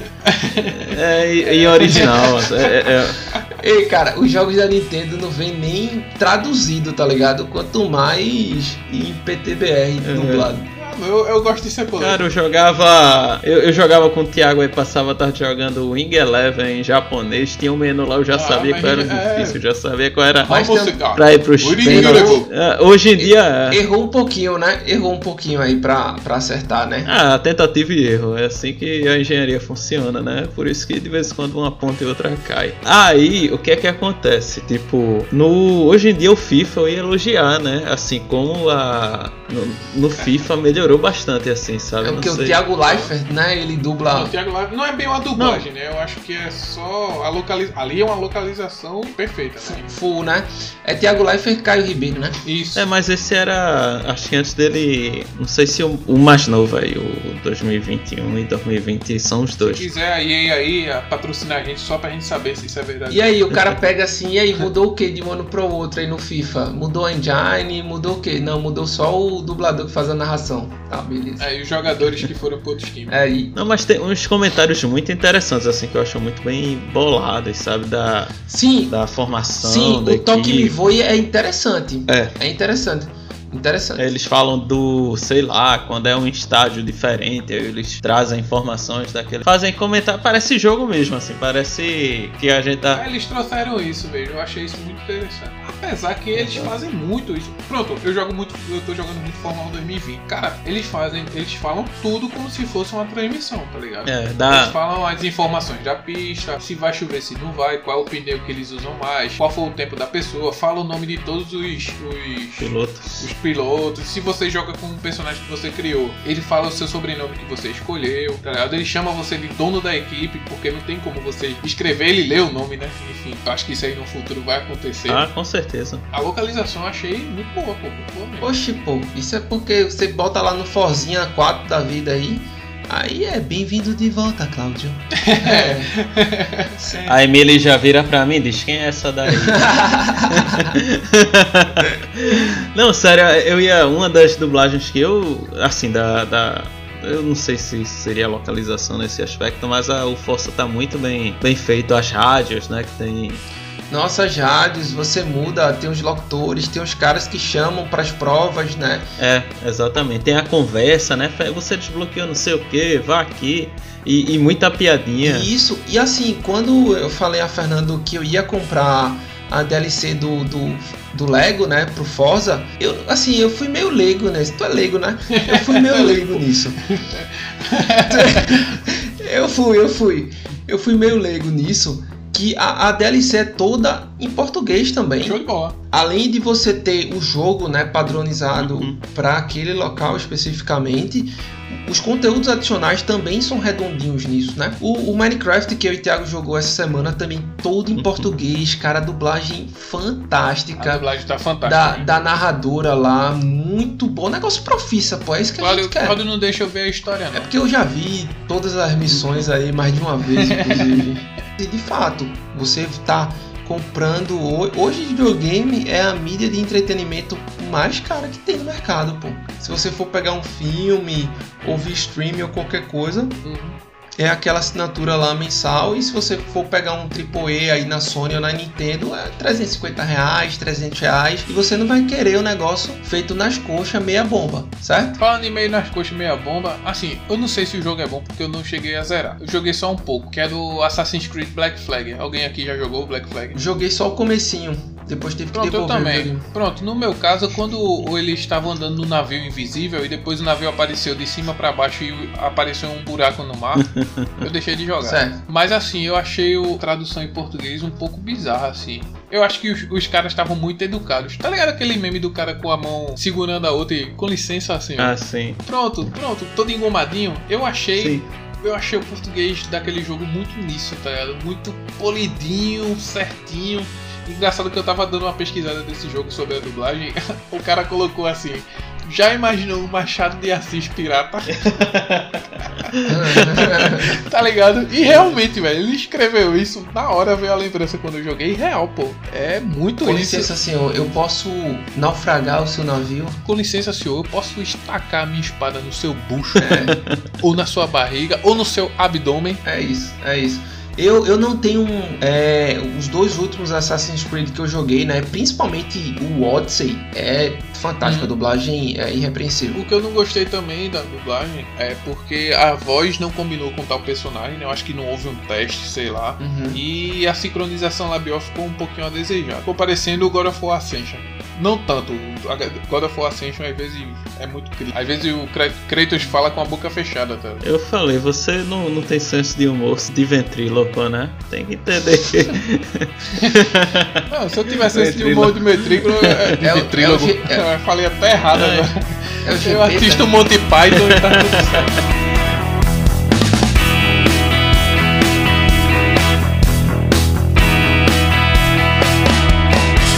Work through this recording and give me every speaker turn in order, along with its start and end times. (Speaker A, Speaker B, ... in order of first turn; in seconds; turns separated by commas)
Speaker A: 0.2-2.8, Speaker B: 0.8-3.2, Speaker C: 3.5-10.7, Speaker B: 10.0-10.5, Speaker A: 10.7-12.2, Speaker B: 12.0-23.8, Speaker A: 18.3-19.6, Speaker A: 20.5-22.5, Speaker C: 20.5-21.0, Speaker C: 21.9-22.5, Speaker C: 23.2-27.1, Speaker B: 27.0-42.6, Speaker C: 42.0-44.3, Speaker A: 42.8-43.1, Speaker A: 44.1-49.9, Speaker B: 45.4-45.7, Speaker C: 49.6-52.4, Speaker A: 52.4-52.9, Speaker B: 52.8-59.9, Speaker A: 59.6-63.3, Speaker C: 63.1-71.4, Speaker A: 71.4-73.2, Speaker C: 73.1-73.5, Speaker B: 73.5-78.3, Speaker C: 78.5-78.9, Speaker B: 78.9-80.8, Speaker C: 79.6-84.1, Speaker B: 82.1-82.3, Speaker B: 84.0-93.0, Speaker A: 92.9-125.2, Speaker B: 96.3-96.7, Speaker B: 104.0-104.8, Speaker B: 112.6-113.3, Speaker B: 125.1-126.0, Speaker A: 126.1-128.5, Speaker C: 128.4-135.9, Speaker A: 135.2-137.0, Speaker C: 136.8-137.2, Speaker B: 137.0-153.4, Speaker C: 139.3-140.8, Speaker C: 153.9-159.0, Speaker B: 159.2-165.5, Speaker C: 165.2-176.8, Speaker A: 175.3-178.8, Speaker C: 178.1-185.4, Speaker A: 185.2-185.8, Speaker C: 185.9-201.1, Speaker B: 188.6-189.0, Speaker B: 198.0-198.3, Speaker A: 200.8-202.1, Speaker C: 201.6-206.2, Speaker A: 205.6-207.5, Speaker C: 207.3-223.4, Speaker A: 210.3-211.1, Speaker A: 223.4-223.8, Speaker C: 224.2-235.2, Speaker A: 235.2-243.6, Speaker C: 243.5-246.4, Speaker A: 245.5-253.9, Speaker B: 253.8-254.4, Speaker A: 254.4-265.1, Speaker C: 255.0-255.4, Speaker B: 265.0-265.6, Speaker A: 265.6-281.7, Speaker B: 267.9-268.2, Speaker B: 281.5-282.4, Speaker B: 283.0-283.6, Speaker C: 283.1-284.1, Speaker A: 283.6-290.5, Speaker C: 290.0-293.4, Speaker A: 293.4-296.7, Speaker C: 296.6-297.0, Speaker B: 296.6-297.2, Speaker A: 297.4-299.6, Speaker C: 299.6-309.8, Speaker A: 308.0-308.3, Speaker A: 309.7-327.6, Speaker C: 316.4-316.8, Speaker B: 327.6-334.2, Speaker A: 334.3-341.9, Speaker B: 334.8-336.4, Speaker C: 336.6-337.6, Speaker B: 338.5-338.9, Speaker C: 339.4-340.5, Speaker B: 340.9-341.9